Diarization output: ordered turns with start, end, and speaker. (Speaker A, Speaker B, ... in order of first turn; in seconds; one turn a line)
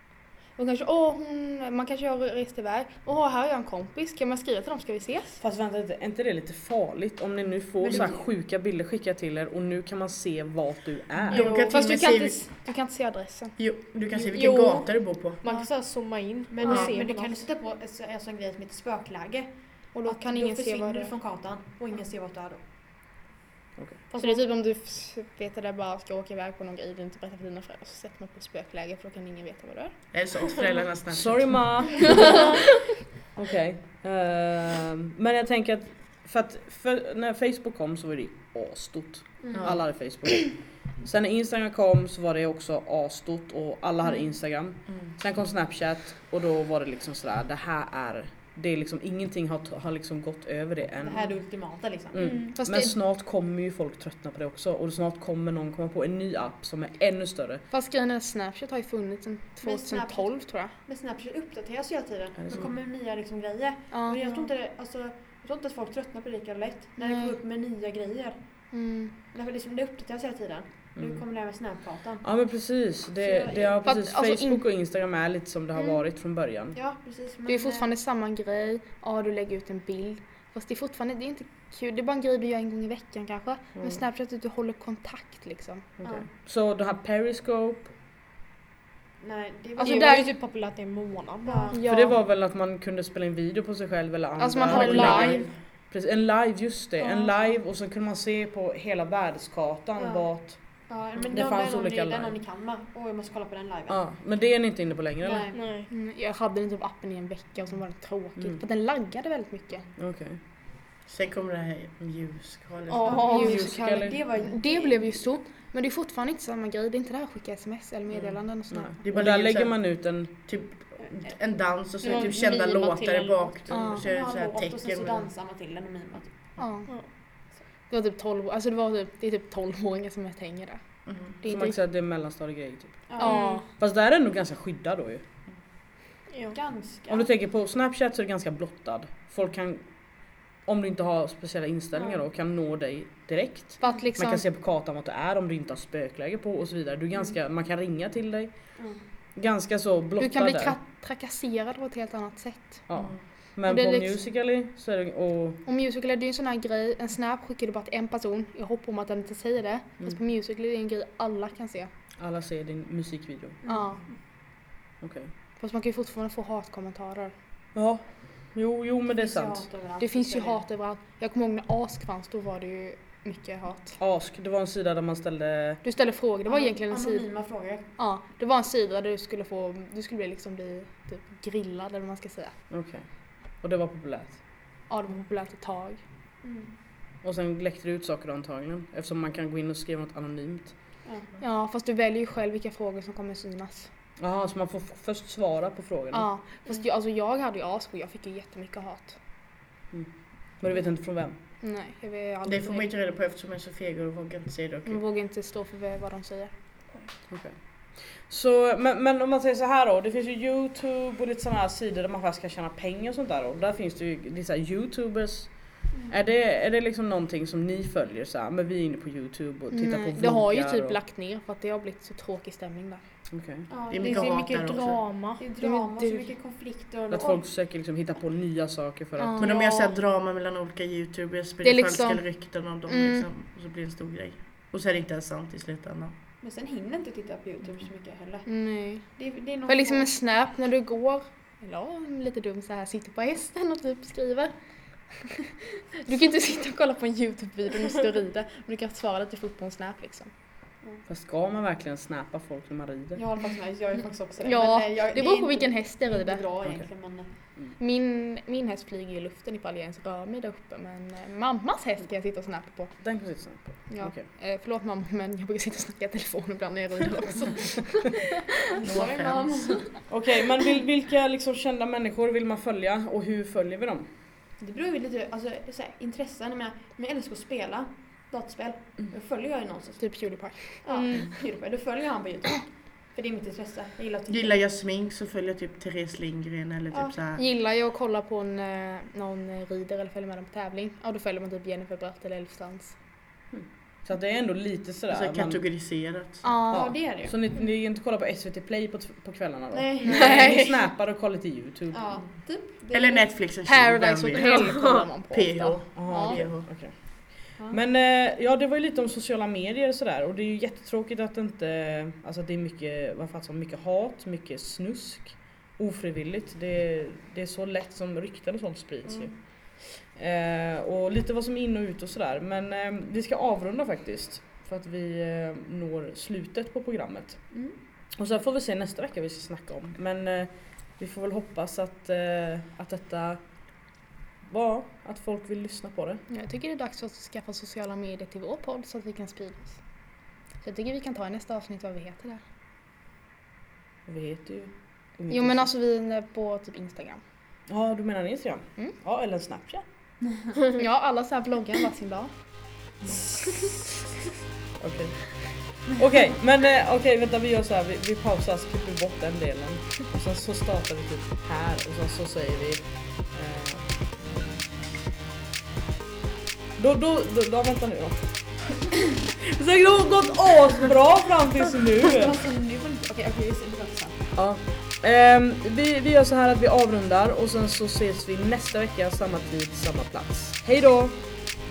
Speaker A: 0.6-5.4
Speaker B: 5.4-11.5
Speaker C: 7.8-8.2
Speaker D: 11.3-12.4
Speaker E: 11.3-11.8
Speaker C: 11.3-11.8
Speaker A: 11.7-13.6
Speaker D: 13.6-15.4
Speaker E: 14.3-17.4
Speaker C: 16.5-22.6
Speaker A: 19.9-21.1
Speaker C: 24.1-24.4
Speaker A: 24.2-30.0
Speaker D: 30.1-31.8
Speaker B: 31.1-32.4
Speaker B: 33.3-51.3
Speaker C: 39.4-39.8
Speaker D: 39.5-39.8
Speaker C: 51.0-52.2
Speaker B: 52.1-57.6
Speaker E: 52.2-52.5
Speaker A: 52.5-53.0
Speaker A: 57.7-60.7
Speaker C: 59.6-68.3
Speaker B: 62.4-62.7
Speaker A: 63.9-64.5
Speaker A: 67.0-67.3
Speaker A: 68.7-69.1
Speaker C: 69.3-72.2
Speaker B: 71.0-71.2
Speaker B: 72.2-76.8
Speaker C: 73.2-73.8
Speaker A: 73.8-74.6
Speaker C: 76.7-77.9
Speaker A: 77.5-85.8
Speaker B: 86.0-87.9
Speaker C: 89.2-90.2
Speaker A: 89.8-90.3
Speaker E: 89.8-91.8
Speaker C: 91.4-91.8
Speaker A: 91.7-92.2
Speaker B: 91.8-100.8
Speaker A: 94.4-95.4
Speaker D: 94.7-95.5
Speaker C: 100.0-104.0
Speaker B: 101.3-102.4
Speaker B: 103.9-105.5
Speaker C: 105.2-105.7
Speaker E: 105.5-105.9
Speaker A: 105.9-109.9
Speaker B: 110.0-110.4
Speaker D: 111.1-113.3
Speaker E: 112.9-113.8
Speaker C: 113.0-115.2
Speaker A: 113.2-119.0
Speaker B: 113.3-114.2
Speaker B: 118.7-120.3
Speaker D: 119.0-125.3
Speaker E: 122.0-123.6
Speaker A: 123.7-124.1
Speaker C: 123.8-126.5
Speaker A: 126.6-127.3
Speaker A: 127.9-131.8
Speaker D: 131.1-131.4
Speaker B: 131.4-135.2
Speaker C: 133.1-133.4
Speaker A: 133.2-133.6
Speaker E: 133.2-133.7
Speaker E: 136.3-136.6
Speaker C: 136.5-137.3
Speaker B: 137.1-148.5
Speaker A: 143.8-144.5
Speaker B: 149.3-150.8
Speaker A: 150.2-152.8
Speaker B: 152.9-155.6
Speaker A: 153.6-154.2
Speaker A: 155.6-161.9
Speaker B: 162.2-163.6
Speaker C: 163.6-164.0
Speaker A: 163.7-164.1
Speaker B: 165.0-165.3
Speaker A: 165.6-167.3
Speaker B: 167.7-169.6
Speaker C: 169.1-170.6
Speaker A: 170.0-174.0
Speaker B: 174.0-175.8
Speaker A: 175.8-177.3
Speaker C: 176.5-177.8
Speaker A: 178.0-182.5
Speaker B: 182.7-183.0
Speaker B: 183.6-184.4
Speaker A: 184.9-186.0
Speaker C: 186.4-186.7
Speaker B: 187.2-190.7
Speaker A: 191.4-193.9
Speaker B: 194.2-196.3
Speaker A: 196.1-199.2
Speaker B: 199.9-201.4
Speaker A: 201.6-202.9
Speaker D: 202.4-205.0
Speaker A: 204.8-206.5
Speaker B: 207.3-221.0
Speaker A: 219.7-223.0
Speaker B: 223.3-223.8
Speaker C: 223.7-227.5
Speaker D: 223.9-225.1
Speaker E: 224.0-225.5
Speaker A: 225.6-226.3
Speaker B: 227.1-229.4
Speaker A: 229.2-229.7
Speaker D: 229.4-236.1
Speaker E: 229.6-229.9
Speaker A: 231.6-233.3
Speaker C: 236.4-240.1
Speaker A: 238.4-244.5
Speaker A: 245.1-250.3
Speaker B: 251.1-253.2
Speaker C: 253.2-257.3
Speaker A: 254.4-256.5
Speaker A: 257.8-262.9
Speaker B: 263.0-264.2
Speaker A: 263.9-268.4
Speaker D: 268.8-269.5
Speaker C: 268.8-269.9
Speaker B: 270.1-274.1
Speaker C: 274.6-280.2
Speaker A: 280.0-280.9
Speaker C: 280.8-284.6
Speaker E: 280.9-281.3
Speaker D: 284.3-287.4
Speaker A: 287.4-292.9
Speaker B: 293.5-295.6
Speaker D: 295.1-296.5
Speaker A: 296.4-297.0
Speaker B: 296.7-302.2
Speaker C: 296.7-297.3
Speaker C: 299.7-300.7
Speaker A: 300.0-300.7
Speaker C: 301.9-303.3
Speaker D: 302.9-306.7
Speaker A: 303.6-306.4
Speaker E: 304.3-305.1
Speaker B: 305.9-327.4
Speaker B: 328.2-333.4
Speaker B: 334.5-336.2
Speaker A: 336.3-339.8
Speaker A: 340.6-342.4
Speaker B: 344.1-345.7
Speaker A: 345.3-347.2
Speaker B: 347.7-349.8
Speaker A: 350.7-352.3
Speaker B: 354.8-363.9
Speaker B: 366.8-372.4
Speaker C: 372.1-374.3
Speaker B: 374.4-381.2